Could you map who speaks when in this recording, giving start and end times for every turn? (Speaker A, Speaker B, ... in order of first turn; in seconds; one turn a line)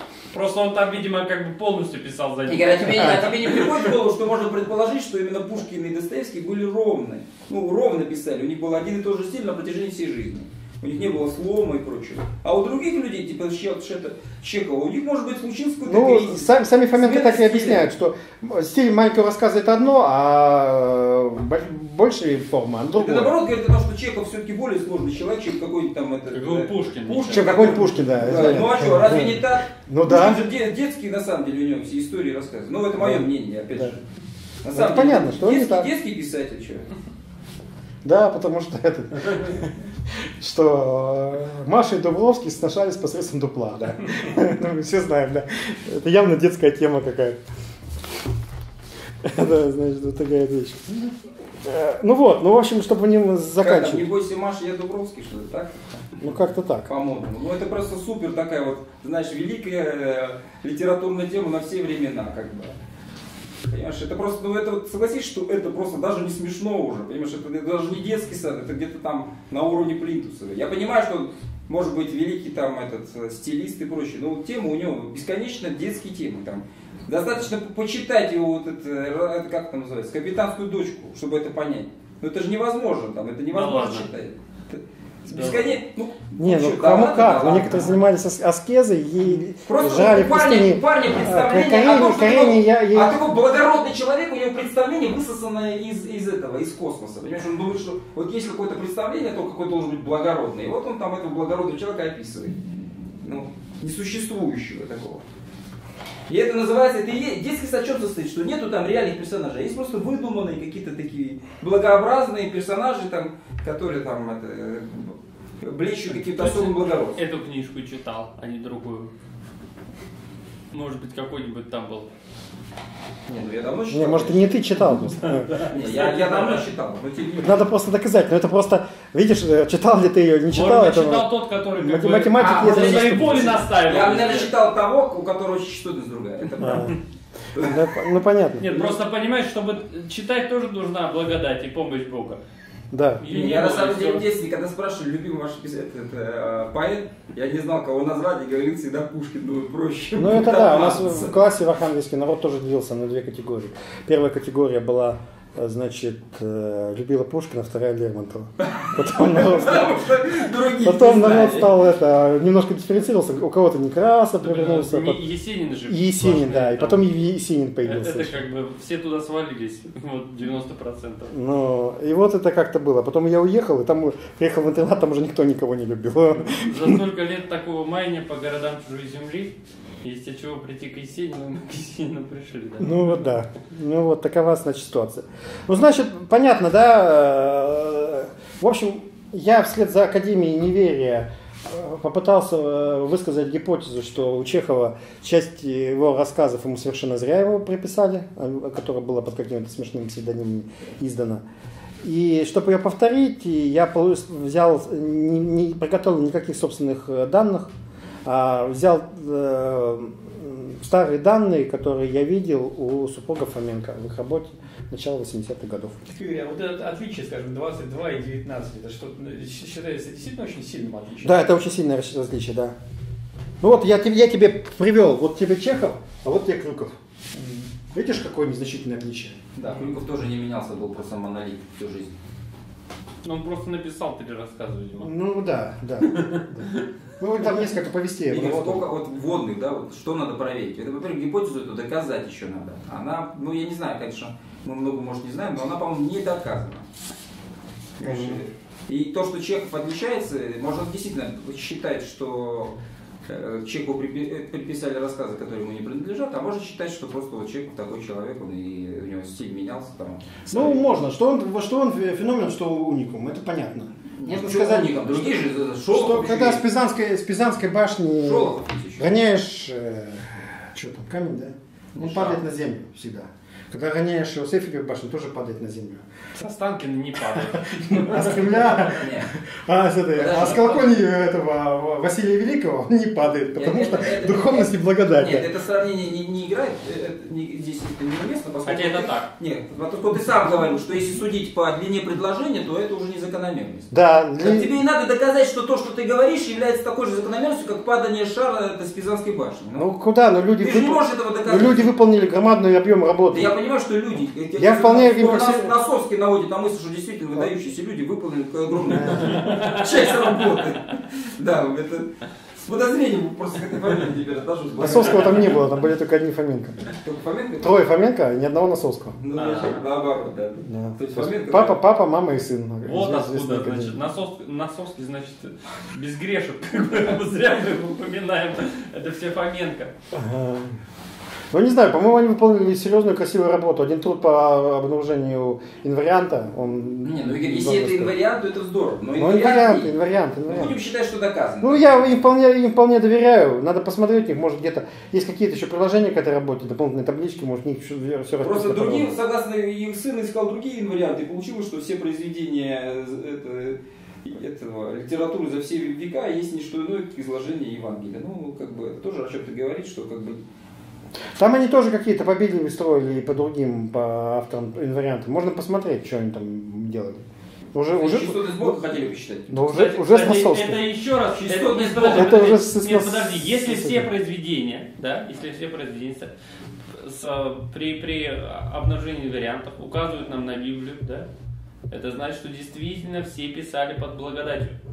Speaker A: 0.3-3.9
Speaker B: 2.5-17.9
Speaker C: 2.9-3.2
Speaker C: 15.8-23.4
Speaker B: 22.9-34.0
Speaker A: 26.3-27.9
Speaker C: 27.3-30.4
Speaker C: 33.0-33.2
Speaker B: 34.6-36.9
Speaker C: 34.7-35.9
Speaker C: 38.0-47.4
Speaker C: 49.2-51.1
Speaker C: 51.6-54.1
Speaker B: 53.6-56.0
Speaker C: 56.2-56.9
Speaker B: 56.9-62.8
Speaker B: 63.7-88.0
Speaker A: 83.5-84.1
Speaker A: 85.3-85.8
Speaker C: 86.4-93.2
Speaker B: 89.6-102.6
Speaker B: 103.2-105.2
Speaker B: 106.3-117.2
Speaker A: 116.1-119.1
Speaker A: 120.7-122.1
Speaker B: 123.3-124.6
Speaker C: 123.9-125.7
Speaker A: 124.9-126.6
Speaker B: 125.7-127.6
Speaker C: 127.4-133.5
Speaker A: 130.5-134.5
Speaker B: 132.4-137.0
Speaker C: 136.6-136.9
Speaker B: 137.5-138.1
Speaker C: 137.6-138.7
Speaker A: 138.6-142.4
Speaker C: 142.9-143.2
Speaker A: 143.2-144.3
Speaker B: 143.3-151.4
Speaker C: 150.2-160.0
Speaker B: 158.6-161.7
Speaker C: 160.8-165.2
Speaker A: 164.4-167.1
Speaker C: 165.9-168.4
Speaker A: 167.8-171.3
Speaker C: 171.3-177.0
Speaker A: 176.6-183.3
Speaker C: 182.8-201.4
Speaker C: 202.0-207.7
Speaker C: 208.2-216.0
Speaker D: 216.1-221.5
Speaker C: 221.2-222.8
Speaker C: 223.6-226.9
Speaker D: 227.3-227.7
Speaker C: 227.9-229.4
Speaker B: 229.5-232.2
Speaker A: 233.2-235.1
Speaker C: 235.0-238.8
Speaker A: 236.0-236.8
Speaker B: 238.3-246.8
Speaker B: 248.0-252.8
Speaker C: 248.0-248.4
Speaker B: 253.3-261.0
Speaker C: 260.5-265.3
Speaker B: 264.1-266.6
Speaker C: 265.9-276.0
Speaker B: 268.2-269.1
Speaker B: 271.9-272.4
Speaker A: 276.4-278.8
Speaker C: 277.3-285.5
Speaker B: 278.7-279.3
Speaker B: 280.1-280.9
Speaker B: 283.5-299.9
Speaker A: 288.6-289.3
Speaker C: 293.9-294.7
Speaker C: 299.8-303.5
Speaker B: 300.6-301.9
Speaker B: 303.3-315.6
Speaker C: 304.6-305.7
Speaker C: 308.9-309.5
Speaker A: 309.4-309.8
Speaker C: 314.8-316.9
Speaker B: 316.9-317.8
Speaker C: 317.6-319.2
Speaker B: 319.2-321.8
Speaker A: 319.3-319.8
Speaker C: 320.6-324.0
Speaker A: 322.8-329.9
Speaker C: 330.1-330.8
Speaker C: 331.5-338.1
Speaker B: 337.0-339.9
Speaker C: 339.2-340.8
Speaker B: 340.5-342.0
Speaker C: 341.6-349.1
Speaker B: 348.4-360.4
Speaker C: 361.4-368.7
Speaker B: 367.9-369.5
Speaker C: 369.5-370.8
Speaker A: 369.6-376.3
Speaker B: 371.3-372.5
Speaker C: 372.1-374.1
Speaker A: 376.9-381.3
Speaker A: 381.9-384.7